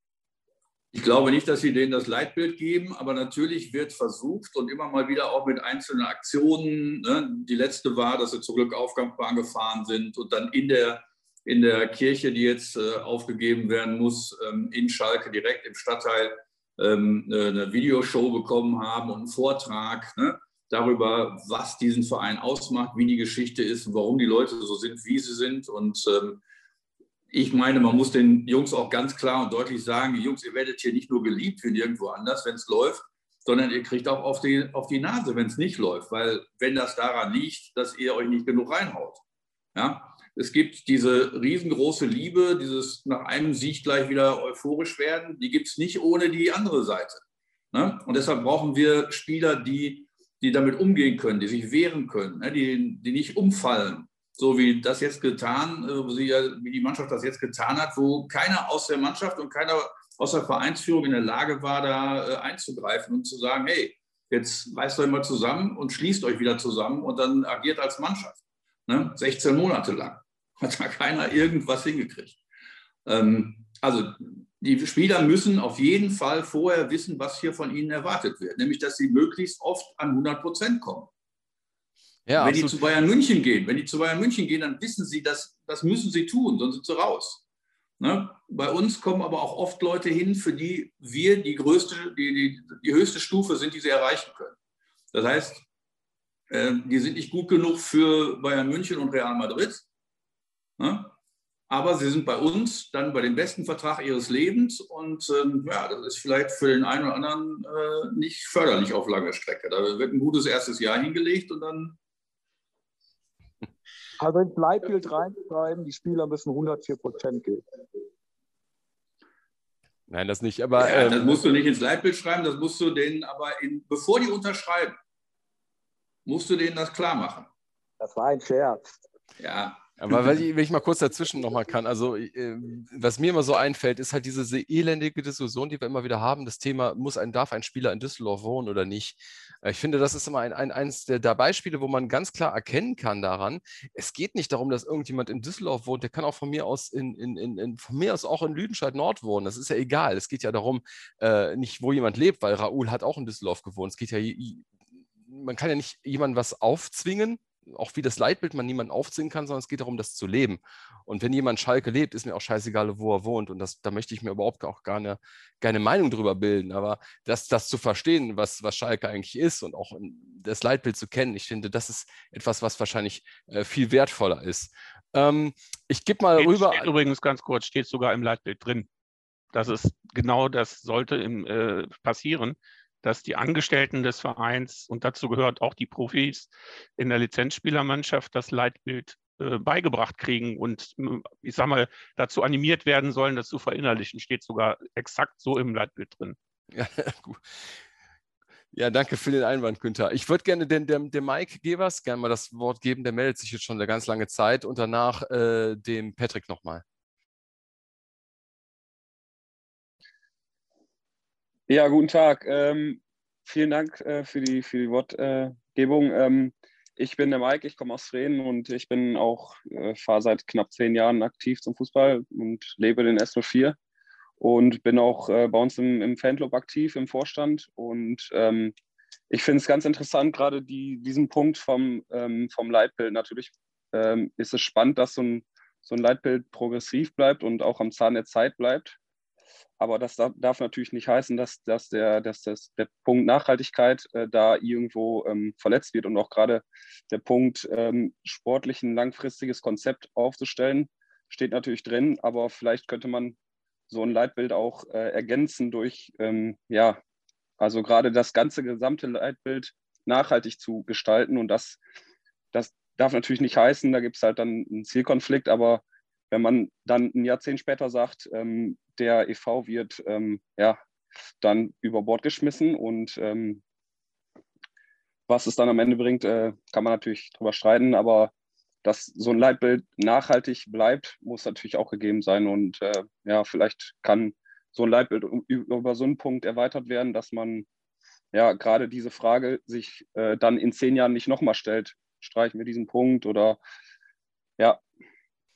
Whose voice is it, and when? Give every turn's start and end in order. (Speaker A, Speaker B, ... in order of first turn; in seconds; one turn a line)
Speaker A: 0.9-26.4
Speaker A: 27.3-39.2
Speaker A: 39.7-72.4
Speaker A: 73.0-81.1
Speaker B: 82.3-82.8
Speaker A: 82.4-87.4
Speaker A: 88.0-94.5
Speaker A: 95.1-95.6
Speaker A: 96.5-99.9
Speaker A: 100.8-101.1
Speaker A: 101.7-112.0
Speaker C: 114.2-117.6
Speaker B: 120.1-121.6
Speaker A: 120.8-125.0
Speaker A: 126.2-127.5
Speaker C: 128.0-129.0
Speaker A: 129.4-129.9
Speaker B: 130.0-154.7
Speaker B: 155.2-176.9
Speaker D: 176.4-178.9
Speaker D: 179.5-196.3
Speaker B: 196.7-197.8
Speaker B: 198.7-206.8
Speaker E: 211.7-223.8
Speaker E: 224.4-228.7
Speaker E: 229.3-239.0
Speaker E: 239.8-253.4
Speaker E: 253.9-257.0
Speaker E: 257.6-261.8
Speaker E: 262.5-270.8
Speaker E: 271.4-273.6
Speaker E: 275.3-278.3
Speaker E: 278.8-287.7
Speaker E: 288.3-293.6
Speaker E: 294.6-294.8